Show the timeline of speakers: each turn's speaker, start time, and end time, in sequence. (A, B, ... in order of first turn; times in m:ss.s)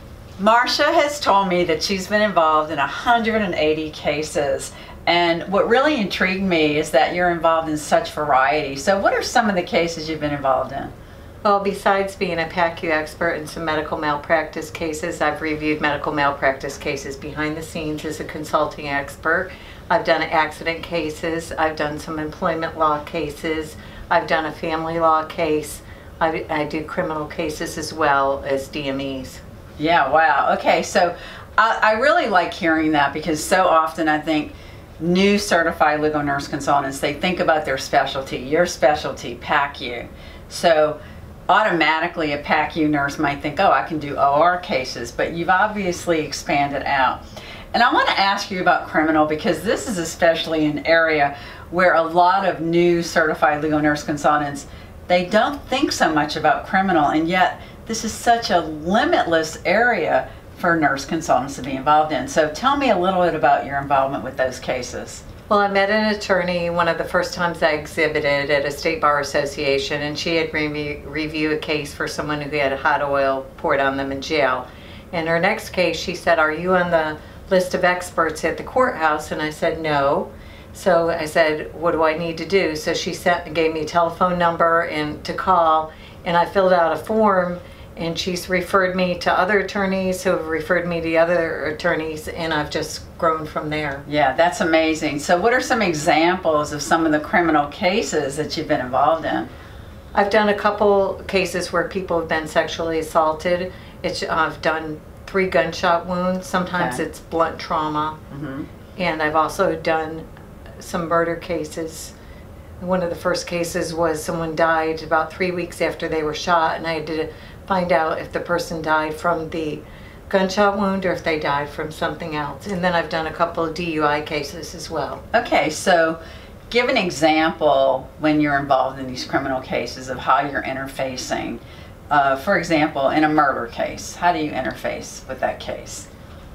0:00.4-0:10.9 A
0:11.4-0:29.4 B
0:29.8-0:41.0 A
0:41.5-0:47.2 A
0:47.7-1:05.2 A
1:05.5-1:34.0 B
1:34.1-1:39.5 A
1:40.1-1:48.2 B
1:48.3-1:48.7 A
1:49.0-1:50.2 B
1:50.8-1:52.1 B
1:52.8-2:05.2 B
2:05.3-2:06.2 A
2:06.7-2:16.1 A